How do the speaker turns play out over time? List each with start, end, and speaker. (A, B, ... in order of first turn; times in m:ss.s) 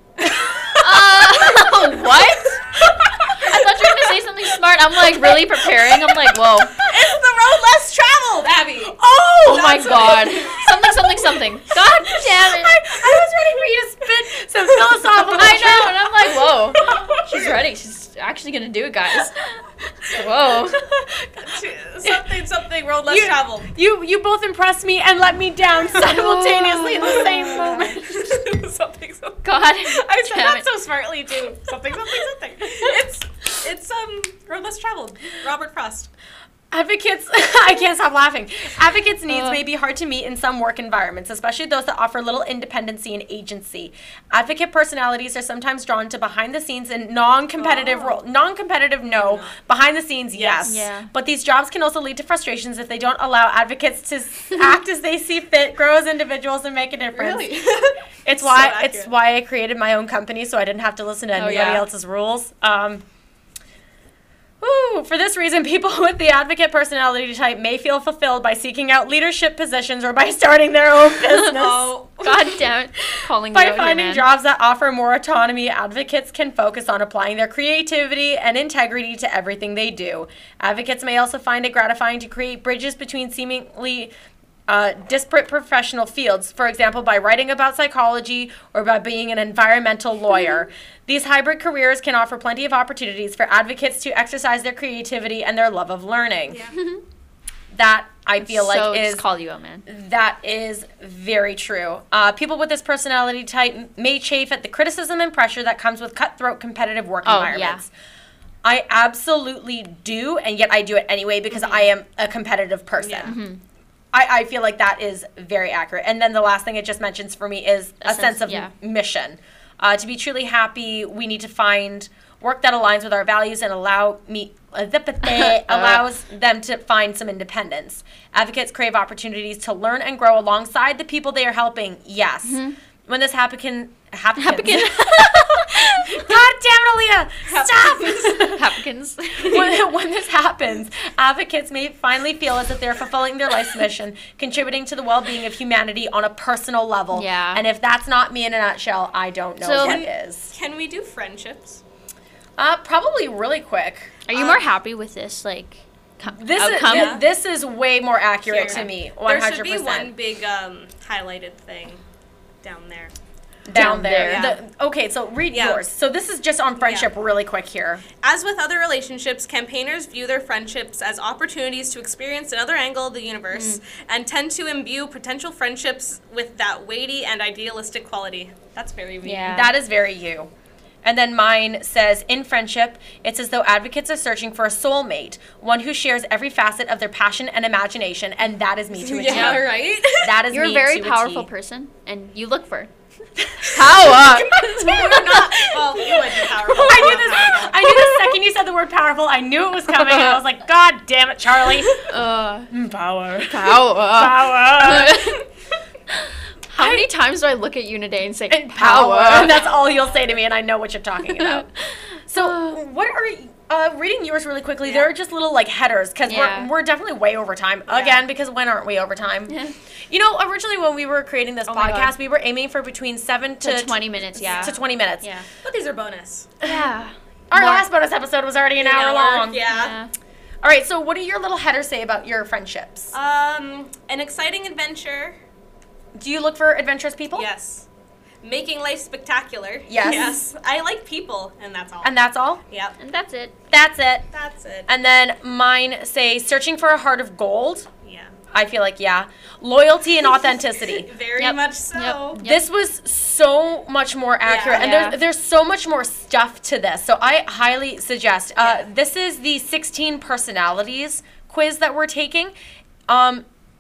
0:00.2-0:01.0 A
0:00.7-0:02.6 B
0:02.8-0:03.9 C
0:03.2-0:03.5 A
0:03.3-0:06.8 B
0:05.1-0:06.0 A
0:06.8-0:09.0 C
0:06.8-0:07.1 A
0:08.8-0:11.1 A
0:09.4-0:12.8 B
0:11.7-0:17.2 A
0:15.1-0:19.5 B
0:20.1-0:20.8 B
0:20.7-0:21.5 A
0:21.4-0:23.7 C
0:22.0-0:22.3 A
0:23.1-0:28.2 A
0:26.0-0:27.8 B
0:27.0-0:36.1 C
0:29.4-0:30.7 B
0:36.7-0:57.6 A
0:39.3-0:39.6 B
0:47.6-0:48.2 C
0:49.1-0:49.6 C
0:50.3-0:50.8 C
0:50.6-0:51.1 B
0:57.1-0:59.1 C
0:58.2-1:03.0 A
1:01.4-1:01.9 B
1:01.4-1:01.8 C
1:04.6-1:12.0 A
1:11.3-1:14.3 B
1:11.4-1:12.4 C
1:13.5-1:24.1 A
1:24.7-1:36.6 A
1:36.5-1:36.8 C
1:36.8-1:37.0 B
1:37.7-1:39.2 A
1:38.4-1:39.9 B
1:39.9-1:47.9 A
1:47.2-1:47.8 B
1:48.6-1:53.4 A
1:51.5-1:51.9 B
1:53.0-1:53.3 C
1:53.2-1:53.6 B
1:54.1-2:18.7 A
1:58.0-1:58.7 B
2:05.2-2:06.0 B
2:12.4-2:12.8 B
2:14.4-2:16.3 B
2:17.5-2:18.5 C
2:18.3-2:19.8 B
2:19.5-2:30.5 A
2:27.1-2:27.6 B
2:29.6-2:30.0 B
2:29.8-2:31.8 C
2:32.6-2:34.1 A
2:34.3-2:37.2 B
2:34.3-2:34.6 C
2:36.3-2:40.1 A
2:36.8-2:37.2 C
2:38.5-2:42.0 C
2:38.6-2:38.9 B
2:42.6-2:43.1 C
2:43.7-2:48.0 A
2:43.7-2:44.5 B
2:44.2-2:44.6 C
2:45.5-2:45.8 C
2:46.8-2:47.1 C
2:48.2-2:59.6 C
2:53.5-2:53.8 B
2:59.2-2:59.7 B
2:59.5-3:00.5 A
3:01.0-3:11.5 A
3:09.0-3:10.4 C
3:09.3-3:09.7 B
3:10.5-3:12.9 B
3:13.4-3:22.0 A
3:13.6-3:16.1 B
3:14.2-3:17.8 C
3:17.2-3:18.3 B
3:19.9-3:20.4 B
3:22.0-3:22.7 B
3:22.7-3:25.4 A
3:23.5-3:25.5 B
3:26.2-3:29.6 B
3:26.8-3:27.1 A
3:28.5-3:31.7 A
3:29.3-3:30.2 C
3:31.3-3:32.8 B
3:32.3-3:39.6 A
3:36.3-3:36.7 B
3:37.9-3:38.2 C
3:39.5-3:39.8 B
3:40.1-3:45.3 A
3:41.7-3:42.1 B
3:43.6-3:45.5 B
3:44.4-3:44.8 C
3:45.6-3:46.5 C
3:46.6-3:46.9 A
3:46.6-3:47.9 B
3:47.5-3:49.6 A
3:48.8-3:50.0 C
3:49.7-3:50.1 B
3:50.6-3:53.1 A
3:53.1-3:55.4 C
3:56.2-3:57.5 A
3:57.3-3:57.9 C
3:58.4-4:02.2 C
3:59.9-4:00.4 A
4:02.0-4:02.6 A
4:02.7-4:03.0 C
4:03.0-4:03.6 B
4:03.7-4:04.3 A
4:04.3-4:04.9 C
4:04.9-4:07.9 A
4:08.0-4:08.4 C
4:08.5-4:11.1 A
4:10.8-4:12.4 C
4:11.4-4:12.7 B
4:12.4-4:22.5 A
4:14.4-4:14.8 C
4:14.7-4:15.2 B
4:18.6-4:18.9 C
4:23.1-4:23.5 A